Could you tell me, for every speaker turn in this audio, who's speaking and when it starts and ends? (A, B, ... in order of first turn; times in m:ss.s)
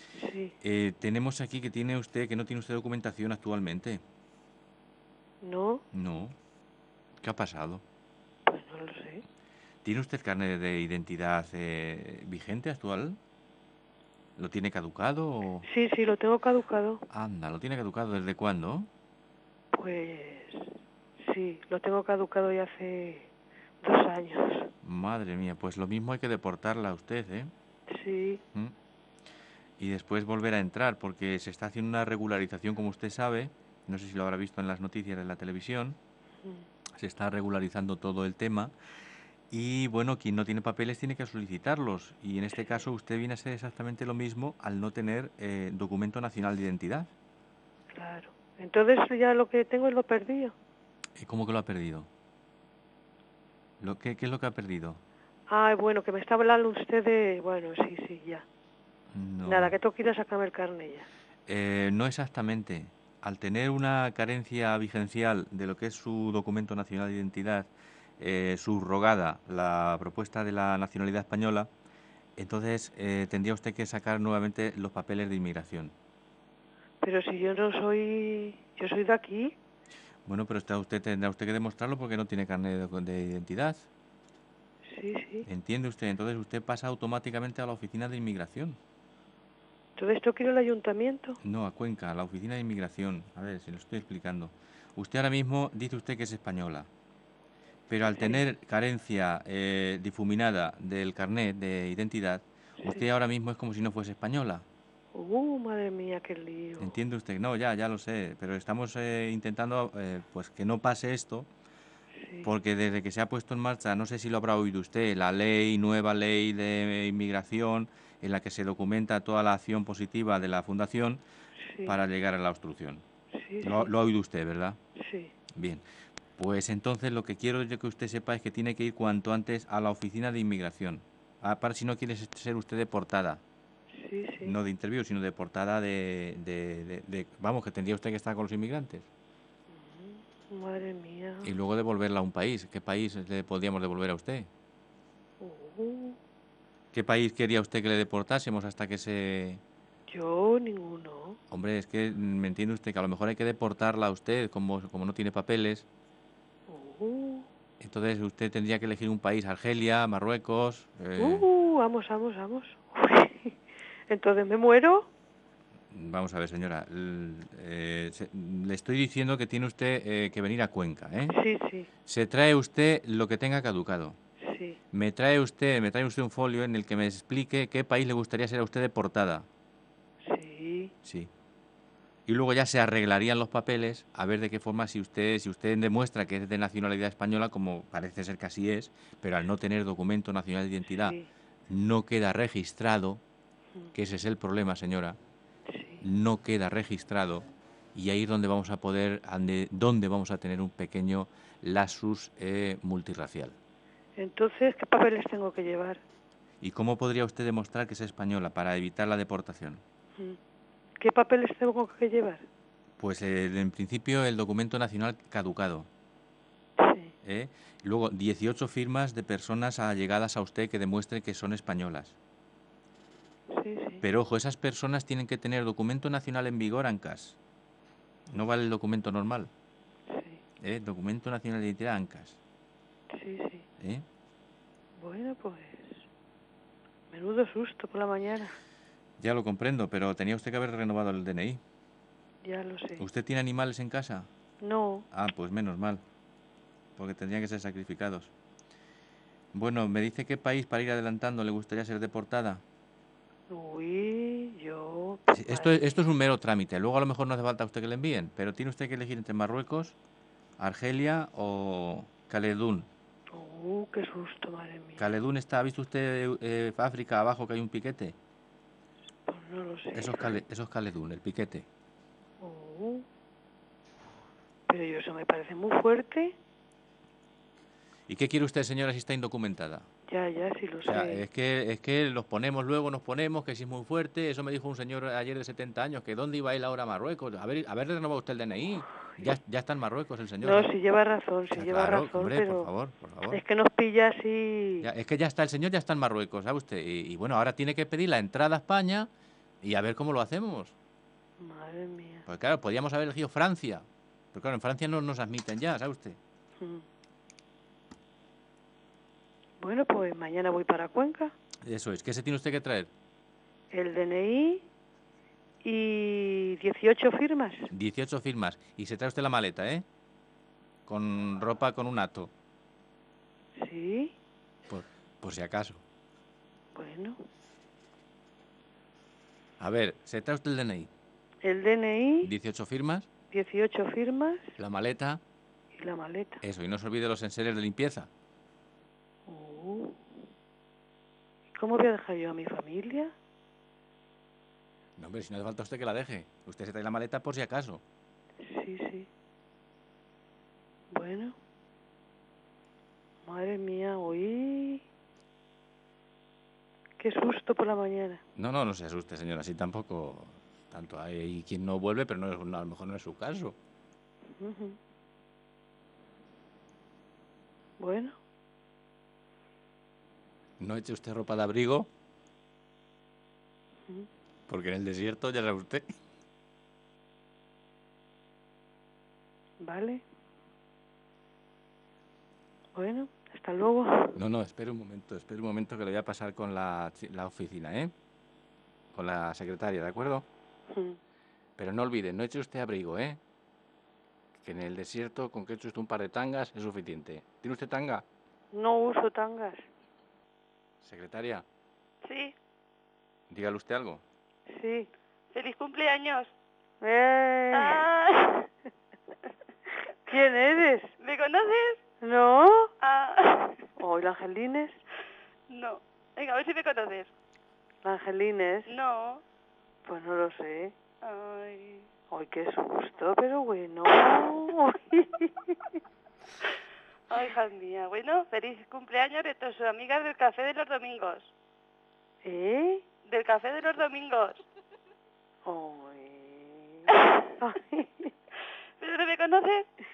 0:00.2-0:00.5 A
0:00.6-0:04.0 B
0:05.4-0:05.8 A
0:05.9-0:06.3 B
0:07.2-0:07.8 B
0:08.4-0:09.2 A
0:09.8-0:13.2 B
0:14.4-0:15.7 B
0:15.6-0:17.0 A
0:17.1-0:18.9 B
0:19.7-0:23.3 A
0:23.8-0:24.7 A
0:24.8-0:27.5 B
0:27.9-0:28.4 A
0:29.8-0:36.0 B
0:37.0-0:38.7 B
0:39.5-0:47.1 B
0:42.6-0:42.8 A
0:47.9-0:50.5 A
0:51.2-0:52.1 B
0:53.8-0:55.0 B
0:55.5-0:58.4 A
0:59.1-0:59.7 B
0:59.4-1:01.1 A
1:01.5-1:11.7 B
1:12.4-1:15.9 B
1:17.0-1:19.6 A
1:20.2-1:23.9 B
1:24.9-1:25.5 A
1:25.4-1:28.8 B
1:30.0-1:31.4 A
1:31.4-1:36.9 B
1:37.9-1:44.6 B
1:38.0-1:38.4 A
1:45.1-1:47.0 A
1:46.8-1:51.5 B
1:52.2-1:52.5 A
1:52.4-2:01.2 B
2:01.6-2:02.0 A
2:01.8-2:03.0 B
2:03.3-2:03.9 A
2:03.6-2:04.8 B
2:05.0-2:05.3 A
2:05.5-2:05.8 B
2:06.4-2:13.4 B
2:13.9-2:14.6 A
2:14.4-2:19.1 B
2:19.7-2:21.5 A
2:21.4-2:24.5 B
2:25.4-2:26.2 A
2:26.9-2:29.6 B
2:30.1-2:31.4 A
2:31.5-2:35.8 B
2:36.7-2:37.5 A
2:37.8-2:41.5 B
2:41.2-2:43.6 A
2:44.1-2:45.1 A
2:45.9-2:51.3 B
2:51.3-2:51.9 A
2:52.0-2:54.2 B
2:54.4-2:54.8 A
2:54.9-2:59.5 B
3:00.2-3:00.9 A
3:01.0-3:01.3 B
3:02.3-3:11.2 B
3:11.0-3:11.3 A
3:11.7-3:13.2 B
3:13.9-3:15.2 B
3:15.7-3:16.0 A
3:16.0-3:23.6 B
3:24.2-3:26.0 A
3:26.6-3:29.8 B
3:31.0-3:32.5 A
3:33.0-3:35.9 B
3:36.8-3:37.1 A
3:37.2-3:42.2 B
3:43.5-3:44.0 A
3:44.0-3:47.4 B
3:48.3-3:49.5 B
3:50.1-3:50.4 A
3:50.6-3:52.4 B
3:53.1-3:53.6 A
3:55.0-3:56.0 A
3:57.1-3:58.6 A
3:59.2-4:01.6 B
4:02.4-4:03.0 A
4:03.0-4:04.3 B
4:04.6-4:05.0 A
4:05.1-4:06.0 B
4:07.0-4:08.3 B
4:09.5-4:12.6 B
4:13.5-4:15.9 A
4:15.3-4:20.0 B
4:20.6-4:22.9 B
4:23.3-4:25.1 A
4:25.0-4:28.1 B
4:29.3-4:30.4 A
4:29.9-4:31.6 B
4:32.4-4:33.0 A
4:34.7-4:36.4 A
4:38.1-4:39.9 B
4:40.1-4:41.2 A
4:40.8-4:50.7 B
4:50.4-4:52.7 A
4:51.5-4:53.4 B
4:53.3-4:54.9 A
4:54.8-4:59.1 B
4:59.6-5:00.7 B
5:01.4-5:02.2 A
5:02.3-5:06.2 B
5:06.6-5:06.8 A
5:09.6-5:11.3 A
5:11.6-5:12.9 B
5:13.7-5:14.7 A
5:15.6-5:17.7 A
5:17.7-5:19.8 B
5:20.9-5:22.3 B
5:23.6-5:24.1 A
5:24.7-5:25.8 B
5:26.7-5:27.2 A
5:29.6-5:30.9 B
5:31.4-5:32.3 A
5:32.2-5:33.1 B
5:33.3-5:34.5 A
5:34.6-5:35.2 B
5:35.7-5:36.4 A
5:36.4-5:38.1 B
5:39.3-5:40.1 A
5:41.6-5:43.1 A
5:45.0-5:47.8 B
5:48.4-5:49.1 A
5:50.9-5:51.4 A
5:53.2-5:54.8 A
5:57.0-5:58.2 A
5:58.4-6:03.6 B
6:04.4-6:04.8 A
6:07.8-6:08.2 A
6:10.6-6:11.9 B
6:14.5-6:15.8 B
6:19.6-6:20.0 A
6:22.7-6:24.2 A
6:24.1-6:27.9 B
6:28.9-6:30.2 B
6:30.7-6:31.0 A
6:31.6-6:33.2 B
6:34.4-6:38.0 B
6:38.5-6:39.6 A
6:40.8-6:41.4 B
6:42.0-6:42.3 C
6:43.3-6:44.0 B
6:44.5-6:44.9 A
6:45.3-6:46.3 C
6:46.8-6:47.8 A
6:47.5-6:48.5 C
6:50.1-6:50.9 A
6:51.0-6:51.8 C
6:52.0-6:52.7 A
6:52.8-6:53.7 C
6:53.8-6:54.8 A
6:55.5-6:57.1 C
6:57.8-6:58.7 A
6:58.7-6:59.2 C
6:59.8-7:00.7 A
7:01.0-7:01.9 C
7:02.1-7:05.8 A
7:03.9-7:04.2 C
7:07.1-7:11.3 C
7:12.2-7:12.8 A
7:13.0-7:14.4 C
7:15.4-7:18.1 A
7:18.8-7:19.7 C